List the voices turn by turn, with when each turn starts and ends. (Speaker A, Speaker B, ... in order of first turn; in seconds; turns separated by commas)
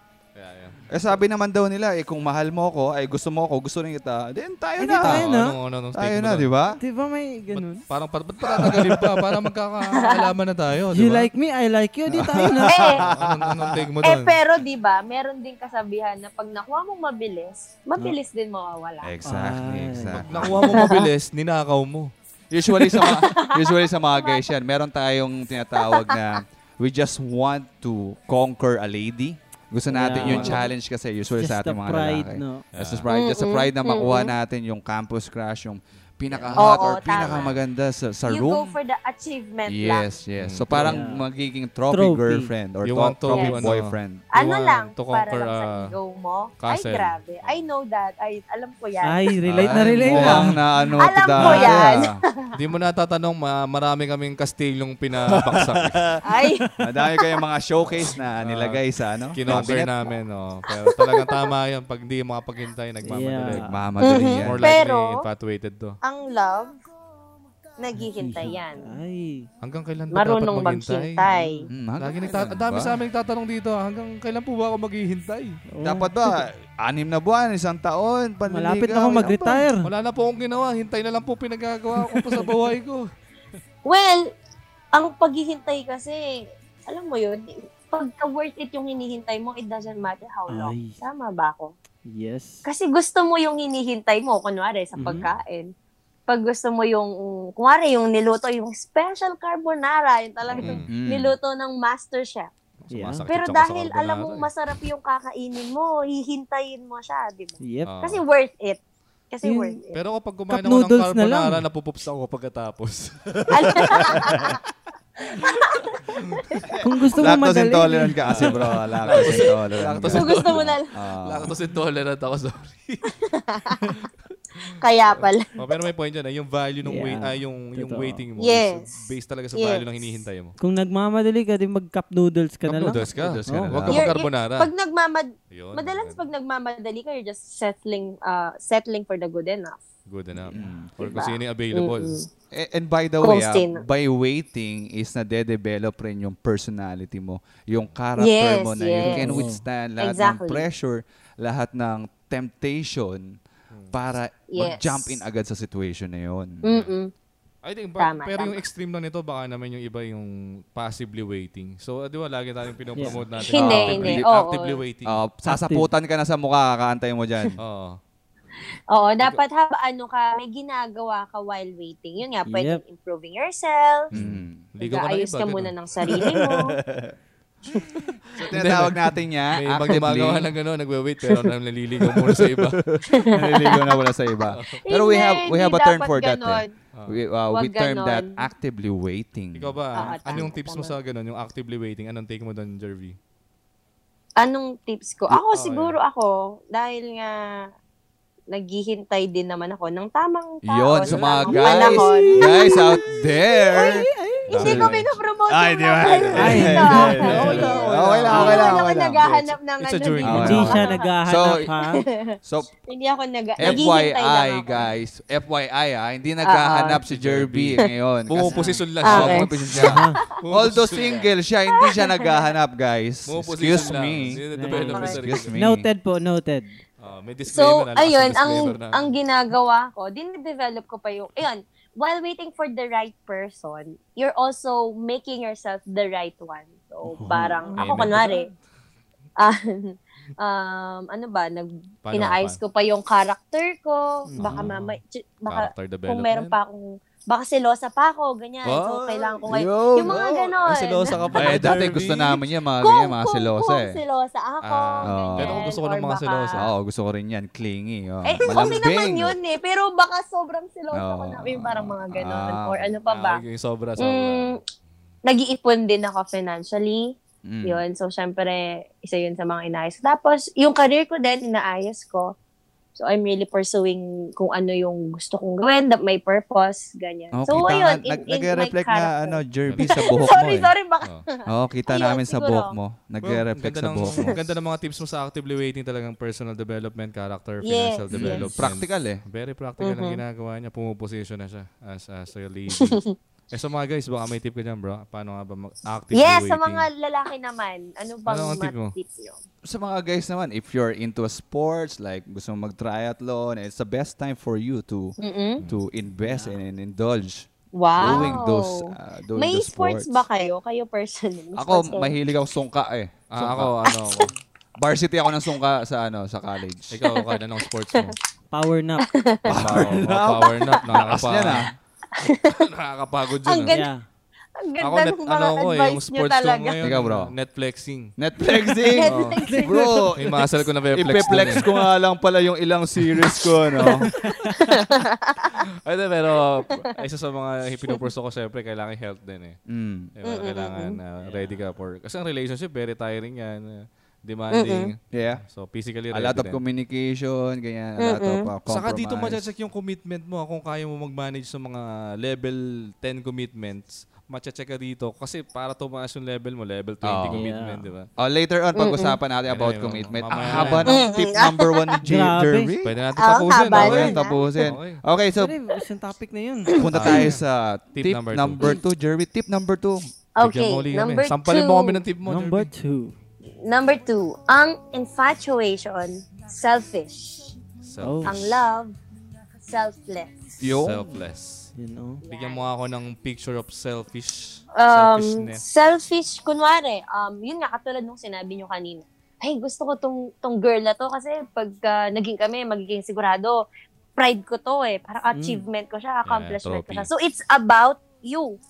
Speaker A: 0.3-0.8, Speaker B: 0.9-5.3, Speaker C: 4.8-5.6, Speaker A: 5.0-6.5, Speaker B: 6.0-6.8, Speaker C: 6.8-7.8, Speaker A: 7.5-11.3, Speaker B: 8.4-9.2, Speaker D: 9.9-10.3, Speaker C: 10.9-13.0, Speaker B: 12.1-13.9, Speaker D: 12.7-13.1, Speaker A: 13.1-14.4, Speaker D: 14.0-19.1, Speaker B: 19.0-20.8, Speaker C: 19.2-20.3, Speaker A: 20.2-22.1, Speaker D: 20.6-21.1, Speaker B: 22.5-38.8, Speaker D: 22.8-24.4, Speaker D: 25.9-26.4, Speaker C: 29.9-30.7, Speaker A: 30.2-30.6, Speaker C: 31.4-32.6, Speaker A: 32.7-33.1, Speaker D: 33.1-34.3, Speaker C: 36.3-36.9, Speaker D: 36.6-37.6, Speaker D: 38.3-40.1, Speaker B: 39.7-44.3, Speaker A: 40.4-41.0, Speaker C: 40.7-41.2, Speaker C: 41.9-42.5, Speaker A: 42.8-46.0, Speaker D: 43.3-43.7, Speaker D: 44.3-49.3, Speaker A: 46.6-47.7, Speaker C: 49.0-50.6, Speaker B: 49.5-52.2, Speaker A: 49.5-50.5, Speaker D: 51.0-52.5, Speaker C: 51.4-51.8, Speaker A: 52.5-56.1, Speaker B: 55.3-56.2, Speaker D: 56.2-57.4, Speaker B: 56.8-59.9, Speaker A: 58.4-58.8, Speaker A: 59.4-63.7, Speaker D: 60.9-61.5, Speaker C: 63.0-63.9, Speaker B: 63.6-64.7, Speaker D: 64.0-65.2, Speaker A: 64.4-66.0, Speaker D: 66.0-66.8, Speaker D: 67.8-69.0, Speaker C: 68.0-69.5, Speaker A: 69.6-71.2, Speaker D: 70.1-71.7, Speaker C: 71.3-71.7, Speaker B: 71.7-73.0, Speaker A: 72.0-75.6, Speaker C: 75.7-76.4, Speaker B: 75.8-79.7, Speaker C: 78.5-79.9, Speaker A: 79.8-83.1, Speaker D: 83.8-84.3, Speaker D: 84.9-91.8, Speaker C: 90.5-91.0, Speaker C: 92.1-92.7, Speaker D: 92.7-95.7, Speaker C: 95.0-95.3, Speaker D: 96.3-102.5, Speaker A: 100.5-100.9, Speaker B: 100.9-101.3, Speaker A: 102.9-104.5, Speaker C: 102.9-103.2, Speaker D: 103.3-108.8, Speaker C: 107.6-107.9, Speaker A: 107.9-108.2, Speaker D: 109.3-110.0, Speaker C: 109.4-109.8, Speaker A: 109.9-114.5, Speaker C: 110.5-111.7, Speaker D: 113.5-114.6, Speaker B: 114.0-114.6, Speaker D: 115.3-115.9, Speaker A: 116.1-116.5, Speaker B: 116.6-121.5, Speaker C: 116.8-118.6, Speaker A: 118.2-123.1, Speaker D: 120.1-121.0, Speaker D: 123.2-124.0, Speaker D: 124.8-125.8, Speaker A: 125.1-130.6, Speaker C: 126.8-128.2, Speaker D: 128.4-129.0, Speaker D: 129.6-129.8, Speaker C: 130.6-133.8, Speaker A: 132.7-134.7, Speaker B: 132.9-134.1, Speaker D: 133.9-139.8, Speaker A: 135.5-136.2, Speaker A: 140.1-142.2, Speaker B: 140.5-141.2, Speaker D: 141.1-142.3, Speaker B: 142.5-153.4, Speaker D: 143.2-143.8, Speaker D: 148.2-149.4, Speaker C: 149.0-149.6, Speaker D: 150.0-150.7, Speaker A: 153.7-154.0, Speaker B: 153.9-156.6, Speaker D: 154.5-155.1, Speaker D: 156.7-157.1, Speaker A: 157.6-165.2, Speaker D: 158.0-158.6, Speaker C: 163.0-163.2, Speaker D: 163.4-164.8, Speaker B: 163.5-164.3, Speaker B: 165.1-167.6, Speaker C: 165.5-165.9, Speaker A: 167.6-168.0, Speaker D: 168.9-174.1, Speaker C: 172.5-172.8, Speaker B: 174.1-174.6, Speaker A: 174.1-175.7, Speaker D: 174.8-176.8, Speaker B: 176.1-177.1, Speaker B: 177.7-180.5, Speaker A: 178.3-179.0, Speaker A: 179.5-183.0, Speaker B: 182.1-189.8, Speaker D: 183.1-184.0, Speaker A: 184.5-184.8, Speaker D: 184.8-186.7, Speaker A: 186.9-187.2, Speaker D: 187.5-188.4, Speaker A: 189.6-193.2, Speaker D: 189.9-191.0, Speaker D: 194.4-197.4, Speaker A: 195.5-196.0, Speaker D: 198.5-203.0, Speaker B: 200.7-209.2, Speaker A: 201.0-201.4, Speaker C: 201.5-202.8, Speaker D: 203.6-214.9, Speaker C: 203.8-204.6, Speaker A: 204.5-205.1, Speaker A: 206.3-210.9, Speaker C: 206.3-207.8, Speaker B: 210.2-211.7, Speaker C: 210.3-212.1, Speaker B: 212.4-212.8, Speaker B: 213.6-224.4, Speaker D: 216.4-217.0, Speaker A: 217.1-221.3, Speaker C: 218.5-218.8, Speaker D: 219.0-219.9, Speaker C: 219.8-220.2, Speaker D: 221.8-222.5, Speaker A: 223.3-225.6, Speaker C: 224.6-226.8, Speaker D: 224.9-225.2, Speaker B: 225.1-225.9, Speaker A: 227.0-229.1, Speaker D: 227.5-238.5, Speaker C: 237.1-238.5, Speaker A: 237.8-238.4, Speaker D: 239.4-251.8, Speaker A: 242.1-242.6, Speaker C: 244.3-244.6, Speaker A: 244.4-246.6, Speaker A: 248.6-252.4, Speaker B: 249.5-250.2, Speaker B: 251.3-254.0, Speaker D: 252.8-256.6, Speaker A: 254.6-256.7, Speaker B: 255.1-255.7, Speaker B: 256.6-259.4, Speaker D: 258.3-263.4, Speaker B: 260.9-262.9, Speaker A: 263.1-264.6, Speaker D: 264.0-264.6, Speaker D: 265.2-272.4, Speaker B: 267.4-267.8, Speaker D: 272.9-282.8, Speaker B: 277.3-280.7, Speaker A: 279.7-280.0, Speaker B: 281.5-284.4, Speaker A: 283.2-296.9, Speaker D: 287.6-288.6, Speaker B: 288.1-289.2, Speaker D: 289.8-290.2, Speaker D: 292.8-293.1, Speaker D: 296.1-299.4, Speaker A: 298.3-299.0, Speaker B: 299.7-307.5, Speaker D: 305.2-305.6, Speaker A: 305.6-305.8, Speaker C: 306.2-306.6, Speaker D: 307.8-312.1, Speaker B: 308.0-310.2, Speaker A: 308.0-308.4, Speaker B: 311.6-313.9, Speaker A: 313.3-314.3, Speaker B: 314.8-317.0, Speaker A: 316.9-318.2, Speaker C: 318.5-319.1, Speaker D: 319.1-319.9, Speaker B: 319.5-321.7, Speaker A: 319.5-321.7, Speaker D: 322.2-322.6, Speaker A: 322.5-323.7, Speaker D: 323.5-323.9, Speaker C: 323.7-324.0, Speaker D: 324.6-326.8, Speaker A: 324.8-328.1, Speaker B: 326.8-327.3, Speaker B: 328.2-334.1, Speaker D: 328.8-330.1, Speaker A: 329.1-329.4, Speaker C: 329.4-330.0, Speaker A: 330.2-331.7, Speaker D: 333.8-335.6, Speaker C: 334.1-334.7, Speaker A: 335.9-339.6, Speaker B: 339.7-340.1, Speaker A: 340.2-346.6, Speaker D: 340.2-341.0, Speaker D: 344.5-344.9, Speaker B: 345.1-345.4, Speaker B: 346.1-349.5, Speaker D: 348.0-348.5, Speaker A: 348.7-358.1, Speaker B: 357.0-357.4, Speaker C: 357.3-357.9, Speaker B: 358.2-363.0, Speaker D: 358.8-359.2, Speaker A: 359.5-360.9, Speaker D: 360.9-362.0, Speaker C: 362.0-362.7, Speaker A: 362.8-365.0, Speaker D: 363.2-364.4, Speaker B: 363.7-365.6, Speaker C: 365.4-366.8, Speaker D: 366.7-367.2, Speaker B: 366.8-370.1, Speaker A: 366.9-367.4, Speaker A: 368.0-368.8, Speaker D: 370.4-372.0, Speaker A: 370.4-372.7, Speaker C: 372.3-373.2, Speaker D: 373.6-377.5, Speaker A: 377.8-378.6, Speaker C: 378.0-378.4, Speaker D: 378.2-379.0, Speaker D: 379.6-380.4, Speaker B: 380.6-381.2, Speaker A: 380.8-381.7, Speaker C: 381.8-382.2, Speaker D: 382.2-382.6, Speaker A: 382.3-385.6, Speaker D: 384.8-393.6, Speaker D: 394.2-398.6, Speaker C: 395.3-395.6, Speaker A: 396.2-397.1